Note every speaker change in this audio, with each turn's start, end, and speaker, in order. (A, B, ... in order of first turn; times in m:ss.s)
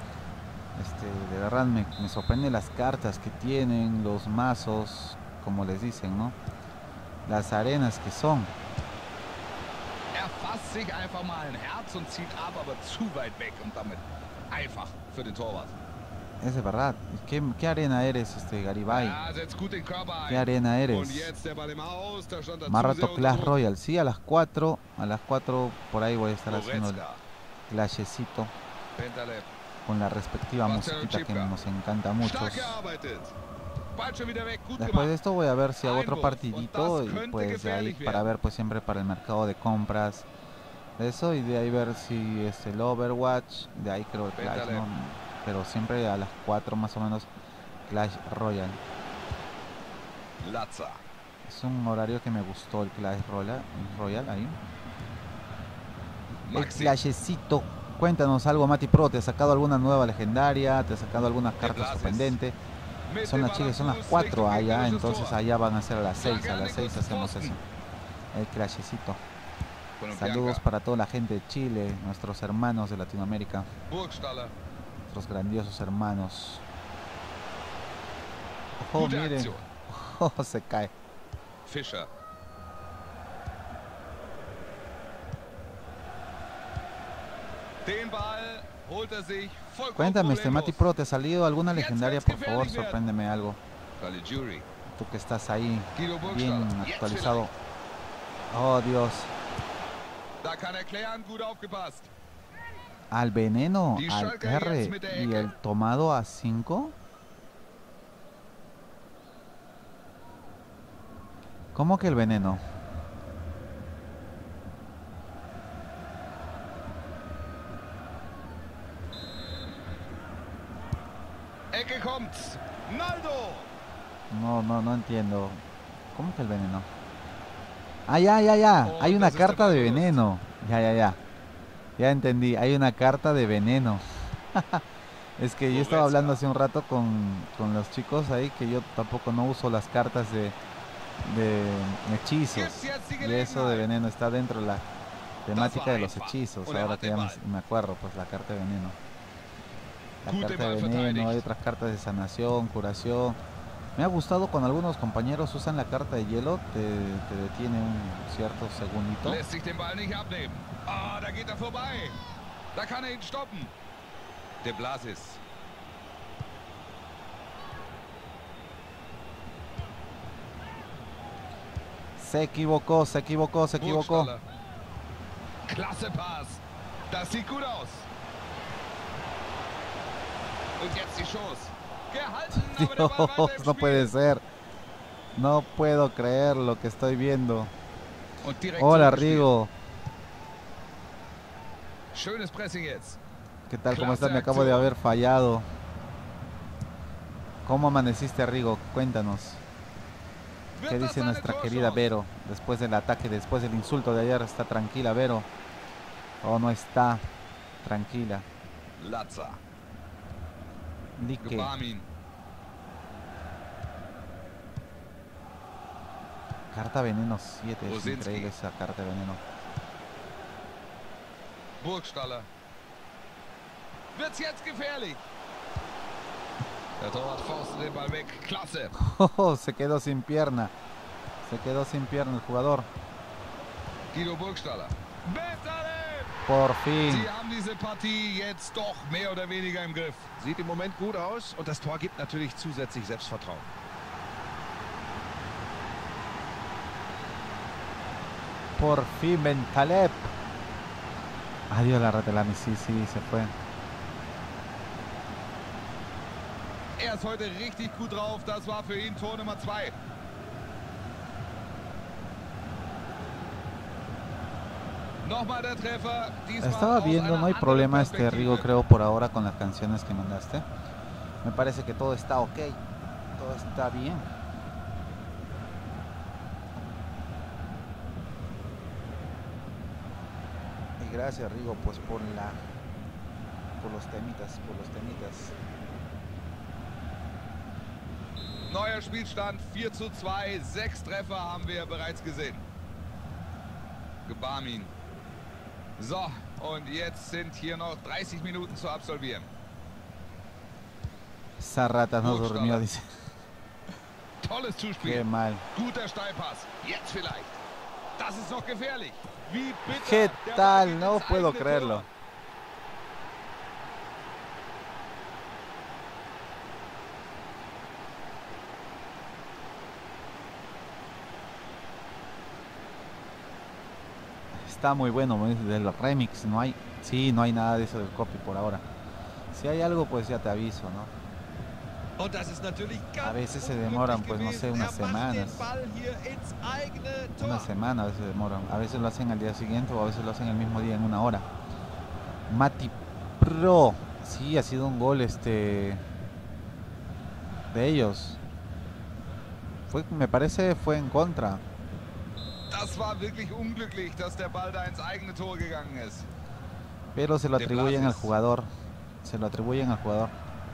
0:00.8-0:06.4 A
0:07.2-0:08.5 A
0:10.1-0:15.7 B
0:16.4-0:19.2 A
0:18.9-0:23.6 B
0:20.3-0:21.4 A
0:22.7-0:27.0 A
0:26.5-0:27.2 B
0:27.7-0:28.5 A
0:29.0-0:29.5 B
0:29.8-0:32.8 A
0:30.6-0:31.5 B
0:32.2-0:33.3 B
0:33.9-0:35.1 B
0:34.8-0:40.3 A
0:35.8-0:38.3 B
0:41.0-0:47.3 A
0:44.3-0:44.8 B
0:47.9-0:48.8 A
0:50.4-0:51.0 B
0:51.4-0:54.6 A
0:56.5-0:57.0 B
0:56.5-1:02.5 A
1:01.6-1:02.4 B
1:03.1-1:05.4 B
1:03.2-1:07.6 A
1:06.2-1:07.6 B
1:08.3-1:09.2 A
1:10.0-1:10.6 B
1:10.1-1:13.7 A
1:13.9-1:14.5 B
1:15.1-1:16.6 A
1:18.8-1:20.9 A
1:18.9-1:19.6 B
1:21.6-1:22.1 B
1:27.8-1:30.8 B
1:30.0-1:33.6 A
1:31.7-1:33.0 B
1:34.0-1:34.6 B
1:34.9-1:37.5 A
1:35.9-1:37.5 B
1:38.5-1:39.3 A
1:40.4-1:42.1 B
1:43.1-1:46.9 A
1:43.9-1:45.5 B
1:51.7-1:52.6 A
2:01.7-2:03.7 B
2:04.3-2:06.9 A
2:08.1-2:11.2 A
2:08.8-2:10.2 B
2:12.0-2:14.8 A
2:15.4-2:20.6 A
2:15.6-2:16.4 B
2:21.2-2:24.8 A
2:22.5-2:23.9 B
2:25.4-2:29.0 A
2:25.5-2:27.4 B
2:30.2-2:33.4 A
2:30.2-2:31.4 B
2:34.0-2:39.4 A
2:39.2-2:42.2 B
2:42.7-2:43.7 B
2:44.6-2:45.4 B
2:52.2-2:54.3 A
2:53.7-2:54.4 B
2:55.6-2:58.1 B
3:00.8-3:04.1 B
3:02.5-3:04.4 A
3:05.3-3:07.7 A
3:08.4-3:09.5 B
3:08.8-3:09.7 A
3:12.1-3:13.2 B
3:13.7-3:15.6 A
3:13.9-3:14.9 B
3:17.6-3:19.6 A
3:20.8-3:22.1 B
3:20.8-3:25.5 A
3:26.4-3:27.2 A
3:27.8-3:28.4 A
3:29.0-3:29.6 B
3:31.2-3:31.7 A
3:31.4-3:32.1 B
3:36.7-3:39.4 A
3:37.8-3:38.5 B
3:41.8-3:42.5 B
3:44.1-3:45.2 B
3:47.0-3:48.9 B
3:48.9-3:50.7 A
3:51.4-3:52.9 A
3:54.1-3:56.4 B
3:56.4-3:57.3 A
3:57.0-4:00.3 B
4:00.4-4:03.7 C
4:08.8-4:10.3 A
4:11.7-4:13.5 A
4:17.0-4:19.9 B
4:25.2-4:28.7 B
4:26.6-4:30.6 A
4:31.4-4:32.8 A
4:33.4-4:34.3 A
4:41.0-4:42.6 A
4:43.8-4:45.6 A
4:48.7-4:52.6 B
4:54.2-4:54.9 B
4:56.0-4:59.5 B
5:01.6-5:03.0 A
5:02.2-5:02.8 B
5:04.4-5:07.6 B
5:05.0-5:05.6 A
5:08.2-5:12.0 B
5:09.9-5:12.0 A
5:24.5-5:28.8 A
5:29.5-5:31.1 A
5:32.2-5:37.7 C
5:33.2-5:35.7 A
5:37.4-5:41.5 A
5:42.5-5:46.0 A
5:47.7-5:48.4 A
5:49.9-5:51.6 A
5:52.7-5:56.3 B
5:57.1-5:58.7 A
5:57.6-5:58.3 B
5:59.2-6:00.3 A